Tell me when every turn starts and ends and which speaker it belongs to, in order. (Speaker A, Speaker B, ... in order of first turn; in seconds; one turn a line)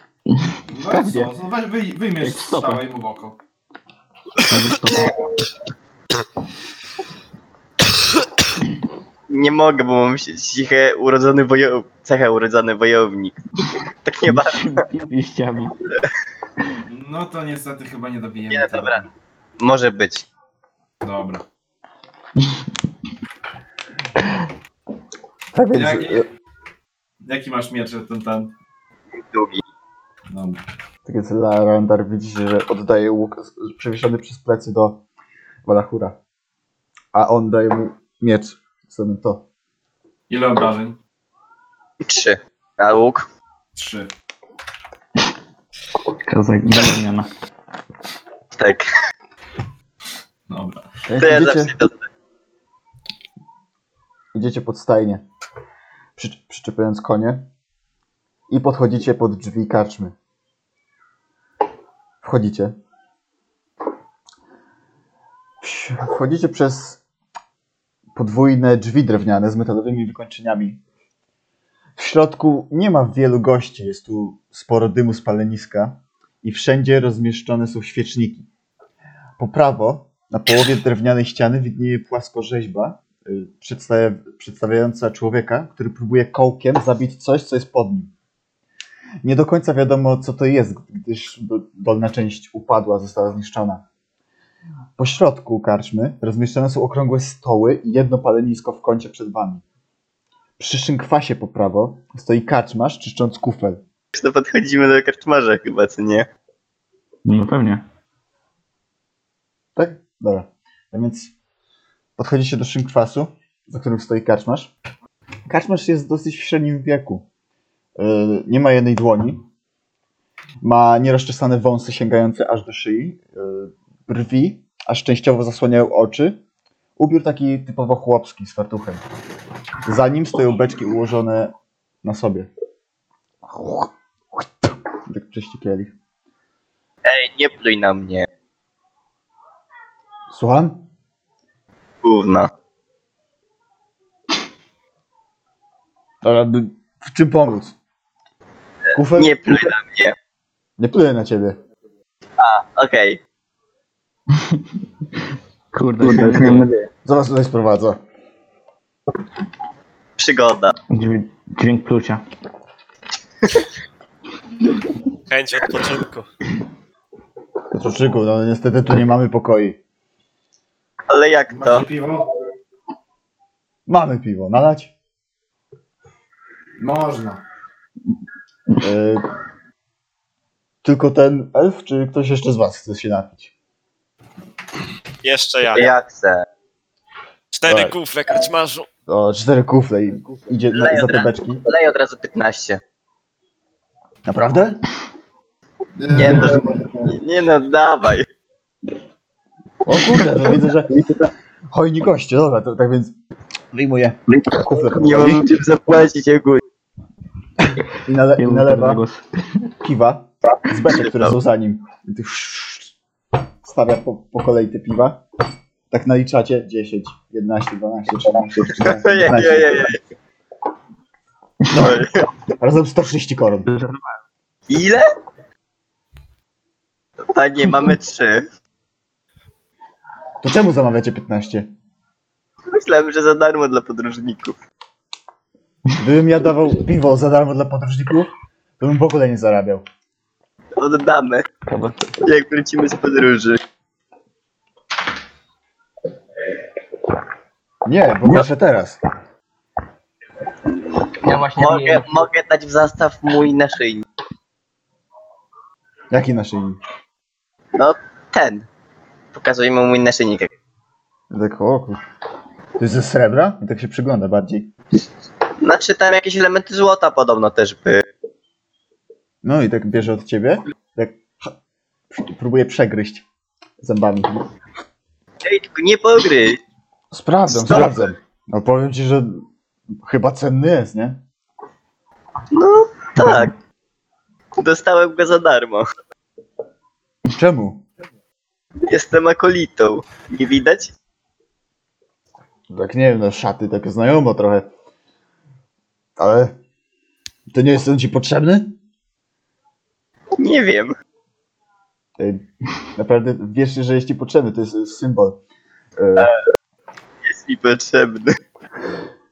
Speaker A: 0.3-1.3
Speaker B: 0.7-3.4
Speaker A: 2.2-2.8
Speaker A: 4.4-5.1
Speaker C: 9.3-13.4
Speaker C: 14.0-14.8
Speaker A: 14.3-15.7
Speaker B: 16.9-19.1
Speaker C: 18.5-19.0
Speaker C: 19.6-20.2
Speaker B: 21.0-21.4
Speaker D: 25.5-26.2
Speaker B: 25.7-26.2
Speaker B: 27.2-28.5
Speaker C: 29.1-29.6
Speaker B: 30.3-30.6
Speaker D: 31.0-35.0
Speaker D: 35.6-36.1
Speaker D: 37.1-39.4
Speaker B: 40.3-41.0
Speaker C: 42.0-43.3
Speaker B: 43.7-44.1
Speaker A: 46.2-47.3
Speaker C: 48.5-48.9
Speaker B: 50.5-50.9
Speaker D: 51.1-51.7
Speaker C: 51.2-52.0
Speaker D: 54.3-55.2
Speaker D: 56.2-57.5
Speaker D: 58.5-60.1
Speaker D: 62.2-62.7
Speaker D: 65.6-67.0
Speaker D: 68.1-70.8
Speaker D: 72.0-78.5
Speaker D: 79.4-88.1
Speaker D: 89.2-93.8
Speaker D: 95.0-99.6
Speaker D: 100.6-103.8
Speaker C: 104.1-106.3
Speaker A: 107.2-107.8
Speaker D: 109.8-111.3
Speaker D: 112.2-114.7
Speaker D: 115.5-117.2
Speaker D: 118.0-119.4
Speaker D: 120.6-126.4
Speaker D: 127.0-129.0
Speaker D: 129.8-131.5
Speaker D: 132.0-132.5
Speaker D: 133.5-133.9
Speaker D: 135.1-135.9
Speaker C: 137.0-138.3
Speaker D: 140.3-140.8
Speaker C: 142.0-142.5
Speaker D: 146.2-147.8
Speaker D: 148.9-149.4
Speaker C: 149.1-150.1
Speaker D: 150.8-151.6
Speaker C: 152.4-153.2
Speaker A: 155.7-156.7
Speaker C: 156.0-156.7
Speaker D: 156.2-158.0
Speaker C: 160.2-160.7
Speaker A: 160.9-162.2
Speaker E: 165.3-166.3
Speaker D: 167.7-169.8
Speaker C: 171.1-171.8
Speaker B: 171.5-172.3
Speaker D: 173.9-174.9
Speaker B: 176.8-177.4
Speaker D: 178.8-179.2
Speaker D: 180.8-183.5
Speaker E: 185.2-185.9
Speaker C: 185.7-186.4
Speaker E: 187.5-188.9
Speaker D: 187.7-187.9
Speaker D: 189.1-191.6
Speaker C: 190.7-192.8
Speaker D: 194.2-194.8
Speaker B: 196.0-197.1
Speaker C: 196.1-198.2
Speaker D: 199.8-201.0
Speaker D: 201.7-203.1
Speaker D: 203.7-205.4
Speaker C: 204.7-206.6
Speaker D: 208.0-209.0
Speaker A: 208.4-209.2
Speaker D: 209.8-212.9
Speaker C: 210.8-211.3
Speaker D: 213.6-215.2
Speaker D: 215.9-219.9
Speaker C: 218.8-220.0
Speaker D: 221.7-222.0
Speaker C: 221.8-222.2
Speaker D: 222.6-223.7
Speaker A: 223.7-224.1
Speaker C: 224.7-225.0
Speaker C: 227.2-228.4
Speaker D: 230.4-231.7
Speaker C: 232.7-234.6
Speaker D: 236.0-239.8
Speaker C: 240.8-241.4
Speaker A: 241.7-242.1
Speaker C: 242.2-243.6
Speaker D: 247.8-249.0
Speaker A: 251.2-252.1
Speaker C: 251.6-254.1
Speaker D: 256.1-256.8
Speaker C: 257.7-258.7
Speaker C: 259.3-260.5
Speaker D: 261.3-262.0
Speaker D: 262.8-264.7
Speaker C: 265.6-268.0
Speaker D: 269.4-271.5
Speaker D: 272.1-273.2
Speaker D: 273.8-274.5
Speaker C: 275.4-276.6
Speaker D: 277.1-279.4
Speaker C: 277.5-278.1
Speaker D: 280.0-281.2
Speaker C: 282.5-283.5
Speaker C: 284.6-285.9
Speaker D: 287.3-287.8
Speaker C: 288.9-290.9
Speaker D: 292.7-294.7
Speaker D: 296.2-296.5
Speaker D: 297.5-298.7
Speaker C: 300.4-300.9
Speaker D: 302.2-305.4
Speaker D: 306.0-306.3
Speaker C: 307.2-308.4